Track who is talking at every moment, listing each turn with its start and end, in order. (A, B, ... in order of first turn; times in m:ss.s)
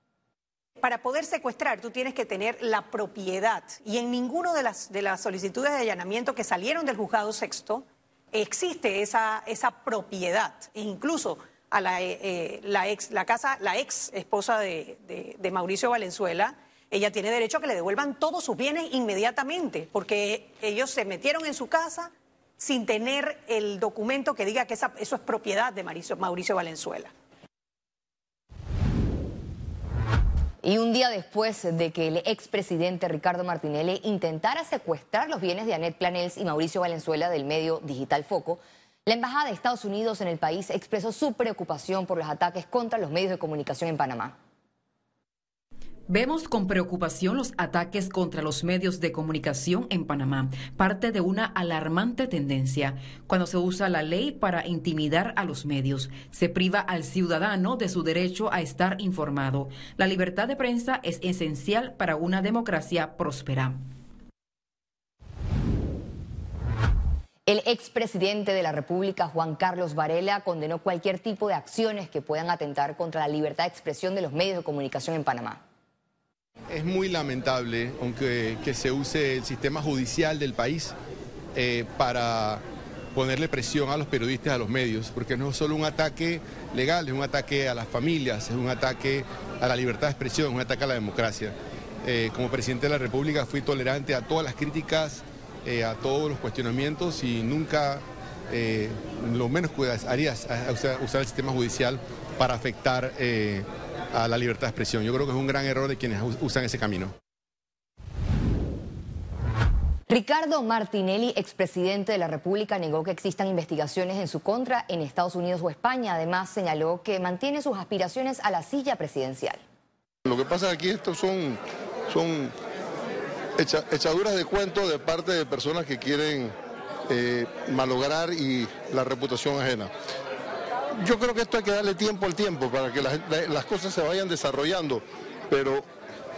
0:00.8-0:07.8 A
0:08.3-0:22.1 A
0:22.6-0:27.1 A
0:30.6-0:44.4 B
0:46.1-1:03.8 C
1:07.5-1:15.6 B
1:16.7-1:20.9 D
1:21.6-1:22.6 D
1:23.1-1:47.1 D
1:50.1-1:59.6 B
2:00.2-2:02.5 E
2:03.6-2:06.5 E
2:07.1-2:09.9 E
2:11.0-2:15.9 E